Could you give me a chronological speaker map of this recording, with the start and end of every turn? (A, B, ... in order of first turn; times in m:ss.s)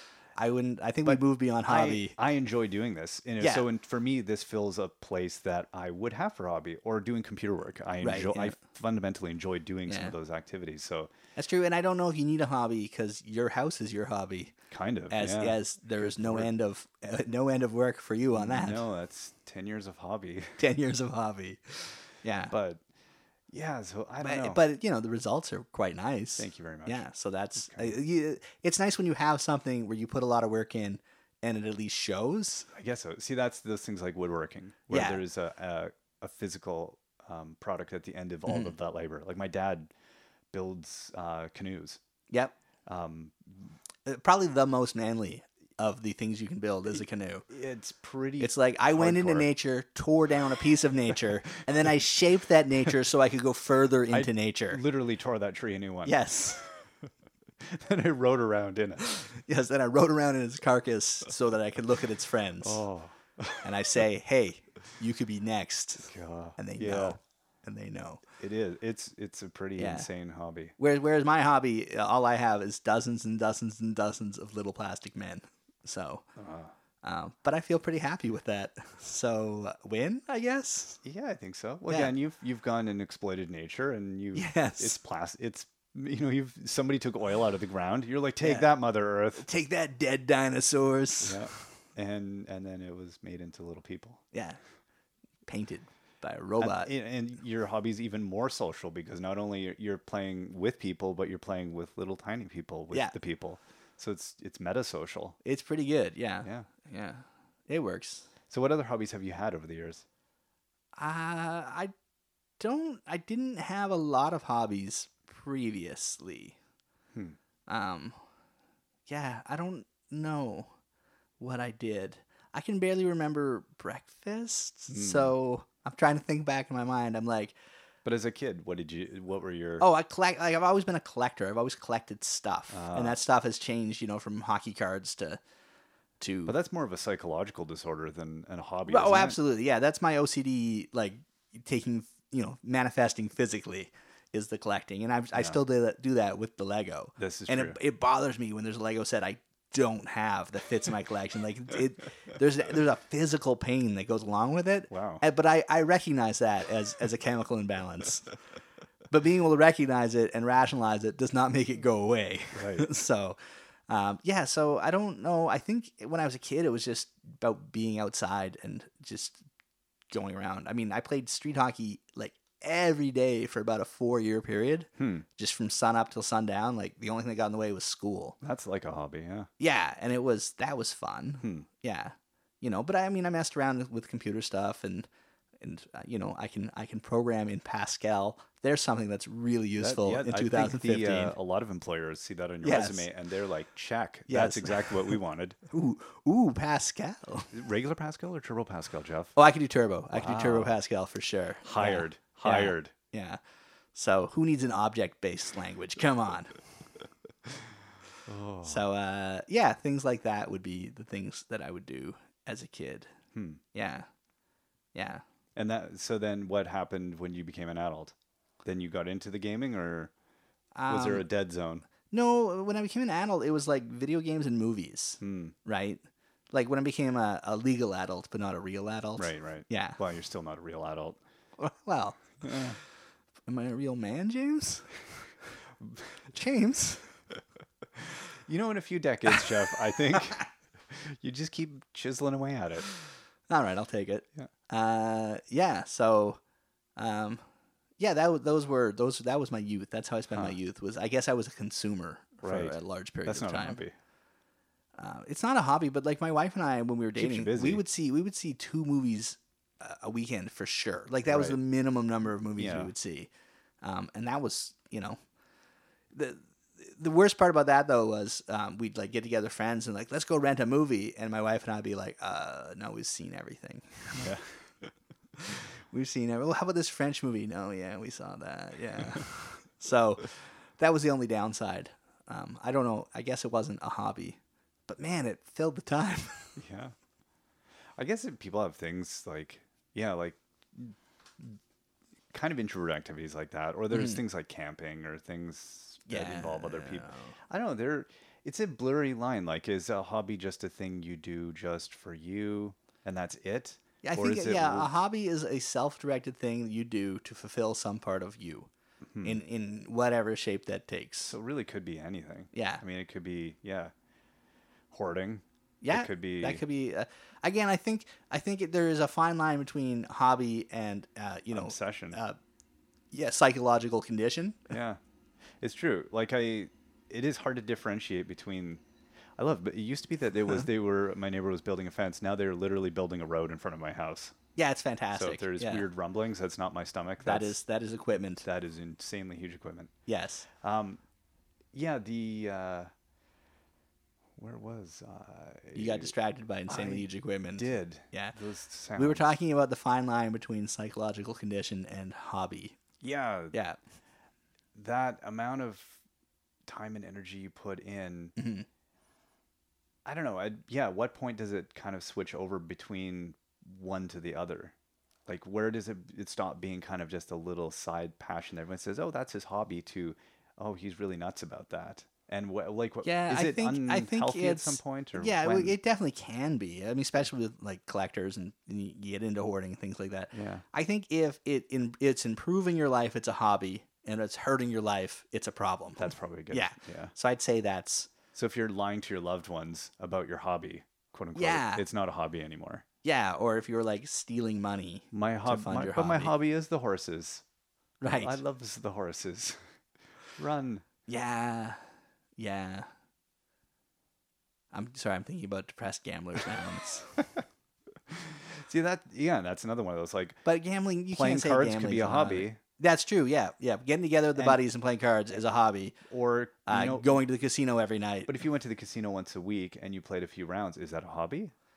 0:00.4-0:02.2 A
0:01.0-0:11.1 B
0:03.4-0:03.6 A
0:08.0-0:08.6 A
0:09.9-0:10.1 A
0:11.4-0:14.5 A
0:14.7-0:16.5 B
0:15.1-0:18.8 A
0:18.3-0:20.6 B
0:20.6-0:22.5 A
0:22.5-0:22.8 B
0:23.5-0:24.6 B
0:24.2-0:32.7 A
0:26.4-0:27.0 B
0:27.6-0:28.0 B
0:32.7-0:39.9 B
0:34.9-0:35.2 A
0:38.5-0:38.7 A
0:40.5-0:42.0 B
0:42.9-0:43.7 B
0:44.0-0:47.4 A
0:47.5-0:49.5 B
0:48.4-0:54.8 A
0:54.1-0:56.7 B
0:56.0-0:56.6 A
0:57.6-0:59.2 B
0:59.0-1:02.8 A
1:02.6-1:03.7 B
1:03.6-1:08.2 A
1:06.0-1:07.2 B
1:08.4-1:10.7 B
1:09.8-1:10.1 A
1:10.8-1:16.2 A
1:16.4-1:16.7 B
1:17.0-1:21.0 A
1:21.0-1:29.5 B
1:24.3-1:25.0 A
1:28.4-1:28.7 A
1:29.4-1:31.6 A
1:31.2-1:34.2 B
1:34.3-1:34.6 A
1:35.5-1:36.9 A
1:36.6-1:45.4 B
1:45.4-1:48.3 A
1:46.4-1:46.7 B
1:48.5-1:50.0 B
1:50.9-1:51.9 A
1:52.6-1:56.6 A
1:57.7-1:58.2 A
1:59.1-2:00.7 A
2:01.4-2:07.6 A
2:04.9-2:05.3 B
2:08.0-2:09.8 B
2:09.8-2:15.4 A
2:12.7-2:13.2 B
2:16.2-2:16.5 A
2:16.4-2:19.4 B
2:18.9-2:38.3 A
2:27.2-2:27.8 B
2:34.9-2:35.2 B
2:39.1-2:49.4 A
2:42.5-2:42.9 B
2:50.1-2:58.4 A
2:55.0-2:55.2 B
2:58.4-2:59.5 B
2:59.6-3:05.1 A
3:01.4-3:01.6 B
3:05.6-3:11.3 A
3:09.8-3:15.6 B
3:12.6-3:13.1 A
3:14.3-3:15.2 A
3:15.7-3:17.5 A
3:17.5-3:19.3 B
3:19.4-3:23.4 A
3:20.1-3:20.7 B
3:21.6-3:22.9 B
3:23.9-3:26.5 A
3:28.2-3:28.8 B
3:28.6-3:33.1 A
3:33.3-3:33.6 B
3:33.7-3:34.1 A
3:34.9-3:35.2 A
3:35.6-3:38.1 B
3:38.6-3:40.1 B
3:40.7-3:41.2 A
3:40.9-3:41.9 B
3:42.1-3:50.0 A
3:45.2-3:45.5 B
3:49.2-3:51.2 B
3:51.6-3:52.6 A
3:52.4-3:52.8 B
3:53.5-3:54.9 A
3:56.3-3:57.1 A
3:58.0-4:02.9 B
4:03.5-4:06.4 A
4:07.0-4:07.4 A
4:08.0-4:13.8 A
4:12.4-4:13.9 B
4:15.0-4:23.3 A
4:17.2-4:17.8 B
4:21.3-4:21.6 B
4:22.6-4:22.9 B
4:23.8-4:25.2 A
4:26.1-4:34.3 A
4:34.1-4:34.6 B
4:35.4-4:46.6 A
4:46.6-4:46.9 B
4:48.0-4:51.6 B
4:52.3-5:04.9 B
4:53.9-4:54.2 A
4:56.1-4:57.3 A
5:04.0-5:08.7 A
5:09.1-5:09.4 B
5:09.2-5:11.3 A
5:11.3-5:13.9 B
5:12.5-5:12.8 A
5:14.9-5:16.6 B
5:15.8-5:22.4 A
5:21.5-5:22.2 B
5:23.1-5:24.7 A
5:24.7-5:25.0 B
5:25.6-5:28.8 B
5:29.4-5:34.4 B
5:34.6-5:35.8 A
5:35.1-5:37.6 B
5:37.2-5:38.4 A
5:38.4-5:39.9 B
5:40.1-5:40.4 A
5:40.6-5:41.0 B
5:41.7-5:42.9 B
5:44.4-5:46.1 B
5:45.7-5:48.3 A
5:46.7-5:49.3 B
5:49.0-5:52.8 A
5:53.0-5:53.6 B
5:53.5-5:53.8 A
5:54.7-5:56.0 B
5:56.7-5:58.3 B
5:58.4-5:58.6 A
6:00.0-6:04.7 B
6:05.3-6:15.7 B
6:13.0-6:28.1 A
6:20.3-6:20.6 B
6:26.0-6:27.1 B
6:28.3-6:32.8 B
6:31.3-6:31.8 A
6:33.0-6:36.3 A
6:35.1-6:37.4 B
6:38.0-6:38.4 A
6:38.2-6:39.6 B
6:40.4-6:40.8 B
6:41.1-6:41.8 A
6:42.4-6:42.9 A
6:44.7-6:47.2 A
6:48.1-6:50.4 B
6:50.4-6:56.0 A
6:51.1-6:52.6 B
6:56.1-6:57.2 B
6:56.7-6:58.3 A
6:58.3-7:01.5 B